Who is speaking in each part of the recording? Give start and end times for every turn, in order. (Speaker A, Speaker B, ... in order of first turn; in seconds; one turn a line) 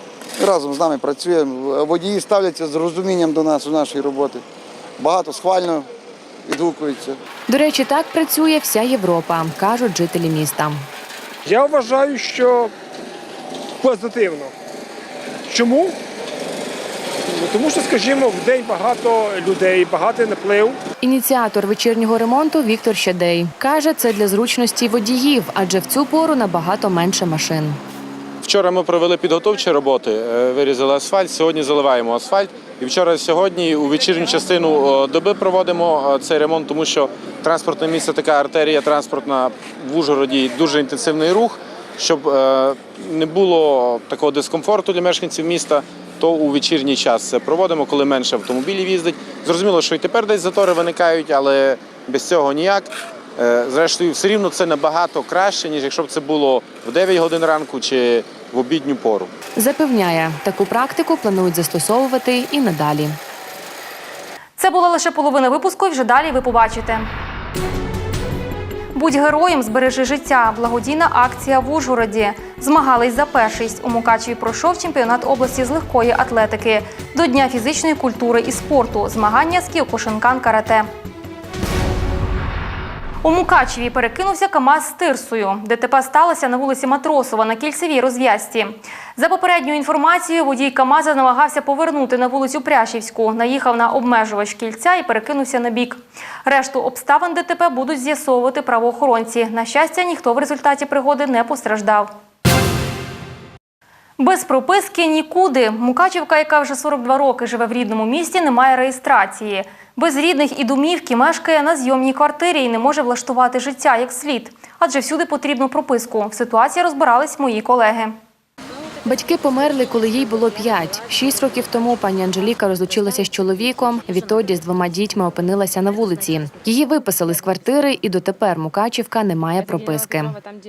Speaker A: 0.4-4.4
Speaker A: 5.0-5.9
Speaker A: 6.5-7.2
Speaker B: 7.5-10.8
Speaker C: 11.5-12.7
Speaker C: 13.8-14.5
Speaker C: 15.5-15.9
Speaker C: 17.3-20.8
Speaker B: 21.0-27.8
Speaker D: 28.4-59.3
Speaker B: 59.6-63.2
Speaker E: 64.6-67.1
Speaker E: 68.9-80.9
Speaker E: 83.2-102.1
Speaker E: 104.2-118.2
Speaker B: 119.0-130.4